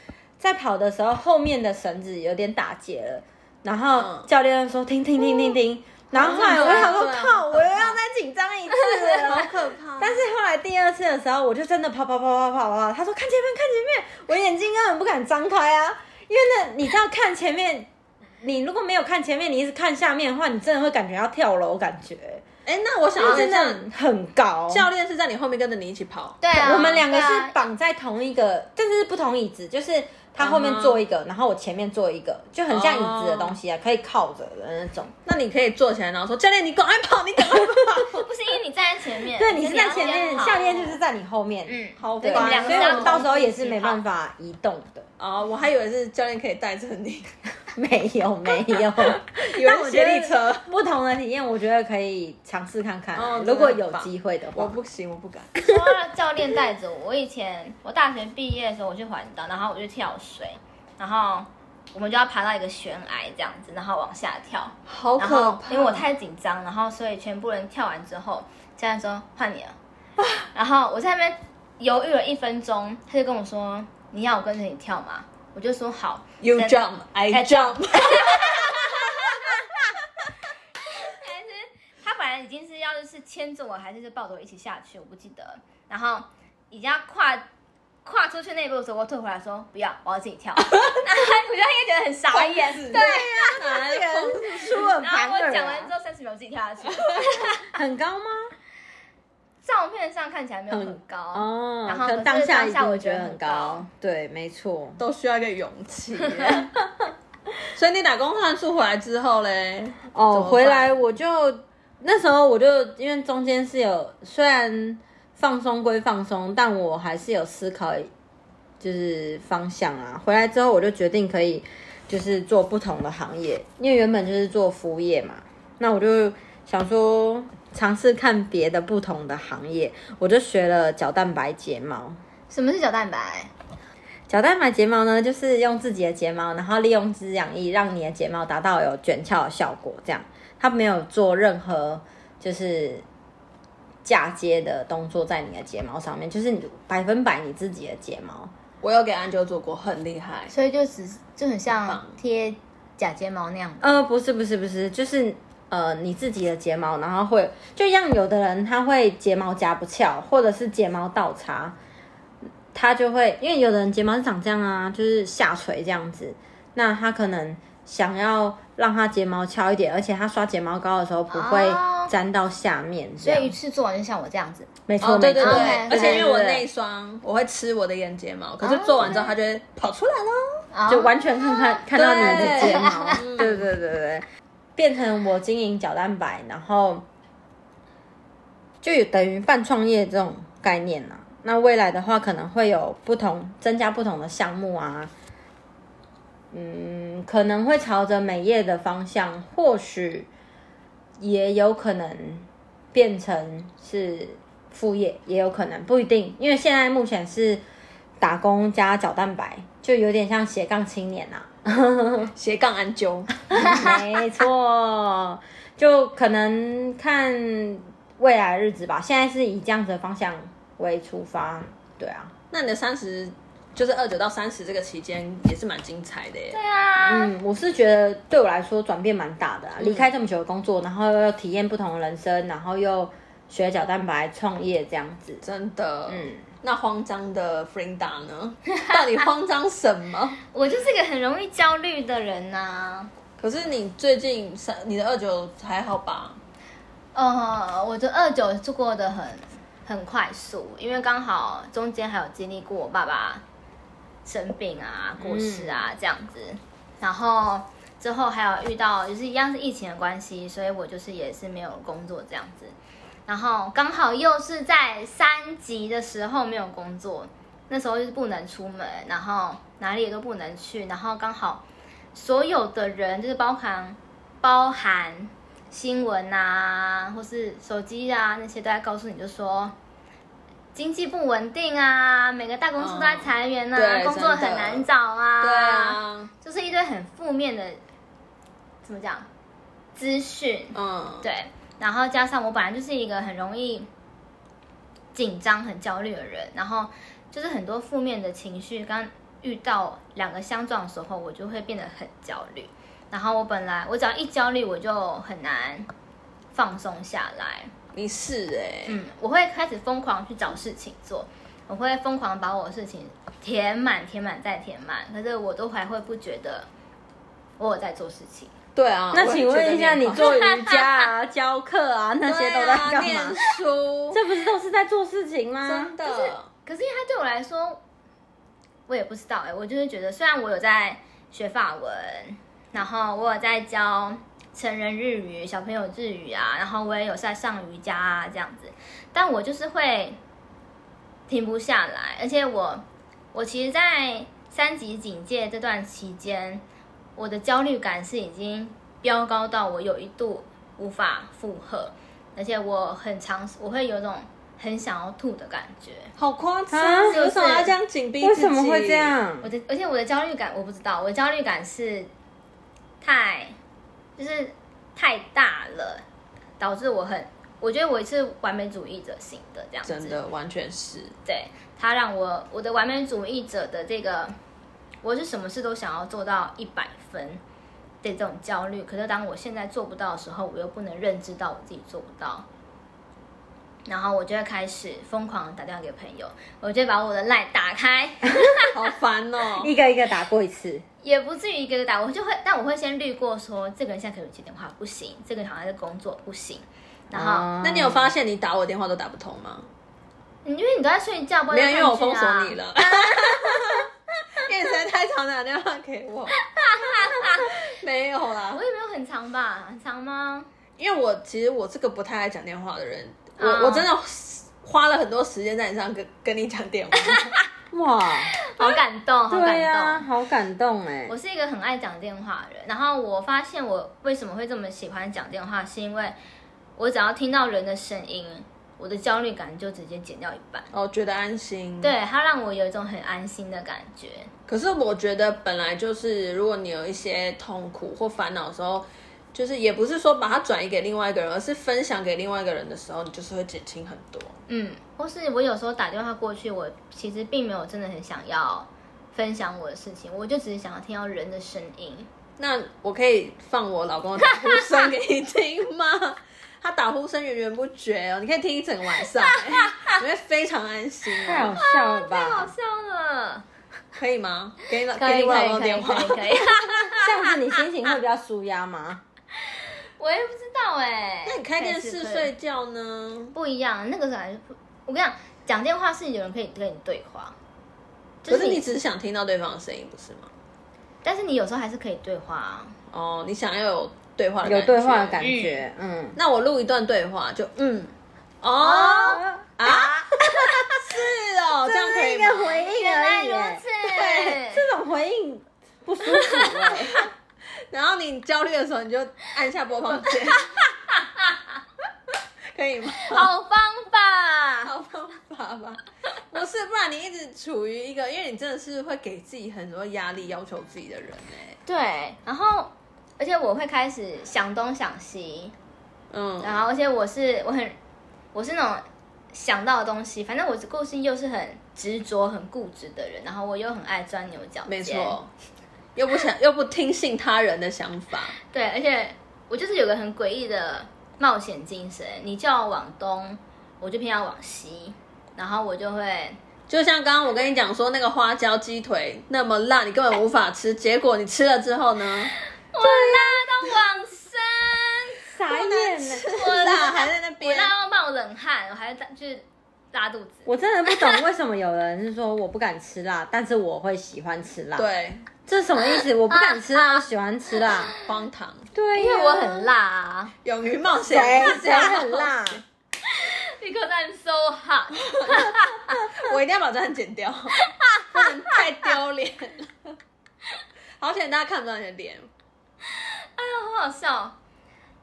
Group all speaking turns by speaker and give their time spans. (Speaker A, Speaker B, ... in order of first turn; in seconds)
Speaker A: 0.4-17.9, 18.4-22.4, 23.2-24.9, 26.5-35.1, 39.4-45.1, 47.8-54.8, 92.9-95.9, 97.7-98.5, 100.7-105.0, 110.1-118.1, 118.8-132.2, 134.3-143.1, 144.0-148.5, 153.8-161.8, 162.7-173.5, 174.9-176.7, 180.9-184.2, 184.8-187.1, 188.8-195.1, 196.5-200.3, 201.2-207.6, 208.2-212.3, 213.5-222.3, 227.0-235.4, 236.1-236.4, 255.2-255.8, 319.1-323.4, 324.1-326.0, 356.7-357.6, 358.2-359.5, 389.6-390.8, 397.1-398.1, 417.7-418.4, 419.3-421.1, 461.2-462.5, 467.0-469.0, 484.4-486.2, 488.6-491.0, 491.6-497.1, 545.3-546.3, 550.5-554.9, 555.5-557.9, 558.8-559.7, 561.1-562.6
Speaker B: 4.0-4.3, 6.1-8.0, 9.2-10.2, 22.7-23.9, 24.7-26.4, 30.4-31.0, 32.7-33.6, 35.2-38.3, 42.0-43.2, 45.2-47.3, 48.9-50.7, 53.1-55.5, 64.9-66.0, 76.4-78.8, 92.3-94.9, 105.0-106.7, 107.7-111.0, 148.8-150.5, 151.7-152.2, 175.0-180.7, 181.9-183.7, 212.4-213.5, 222.5-226.6, 229.8-230.1, 235.4-240.4, 243.4-246.4, 282.8-284.9, 285.4-286.3, 290.7-291.3, 307.9-309.0, 318.8-320.4, 322.3-324.2, 325.6-326.5, 356.2-359.1, 369.9-371.1, 388.7-389.7, 397.6-399.7, 401.5-406.4, 407.1-408.6, 410.8-417.4, 430.7-431.9, 434.5-444.4, 452.4-461.5, 463.9-466.7, 471.3-473.4, 478.3-480.3, 482.9-485.2, 486.2-492.6, 494.0-494.3, 496.2-497.1, 497.7-500.5, 502.5-503.3, 504.6-511.6, 516.1-516.6, 524.7-525.3, 526.0-528.4, 536.7-542.3, 545.5-547.7, 554.8-555.3, 558.0-558.7, 560.4-562.6, 565.2-565.5, 566.0-569.9, 571.0-572.3
Speaker C: 6.6-6.8, 8.8-9.2, 26.4-27.6, 38.1-41.0, 41.7-44.0, 55.6-69.8, 70.5-76.8, 77.3-79.4, 80.9-87.5, 88.0-93.5, 94.8-97.7, 99.6-103.9, 132.5-133.5, 150.5-154.0, 171.3-172.1, 173.2-174.7, 175.4-176.2, 178.6-179.3, 180.7-183.4, 213.6-214.0, 226.5-227.3, 240.5-243.1, 247.2-253.4, 254.2-262.8, 263.3-279.8, 280.7-287.8, 288.8-289.3, 290.0-293.9, 295.1-305.9, 306.5-307.7, 308.9-316.7, 317.6-318.5, 320.2-321.1, 326.1-327.8, 328.9-340.2, 341.3-346.6, 347.2-356.1, 357.1-357.7, 359.4-362.1, 363.0-363.6, 364.2-366.0, 366.6-370.2, 371.3-374.4, 375.0-377.4, 378.0-382.5, 383.9-388.7, 391.0-397.5, 400.4-403.7, 406.4-407.5, 408.5-410.5, 413.4-413.9, 418.5-420.1, 421.1-426.2, 426.8-430.7, 431.8-434.3, 444.5-452.1, 454.3-454.8, 459.2-460.0, 461.6-463.4, 464.9-467.1, 469.6-472.3, 473.3-477.4, 478.2-478.6, 481.0-482.8, 485.2-485.6, 492.6-494.6, 500.9-501.4, 503.0-504.7, 511.7-515.5, 516.4-517.8, 518.3-525.2, 528.5-536.4, 542.7-545.3, 546.2-551.2, 555.8-557.0, 557.7-558.0, 559.0-560.3, 563.0-566.0, 567.6-568.6, 572.9-574.4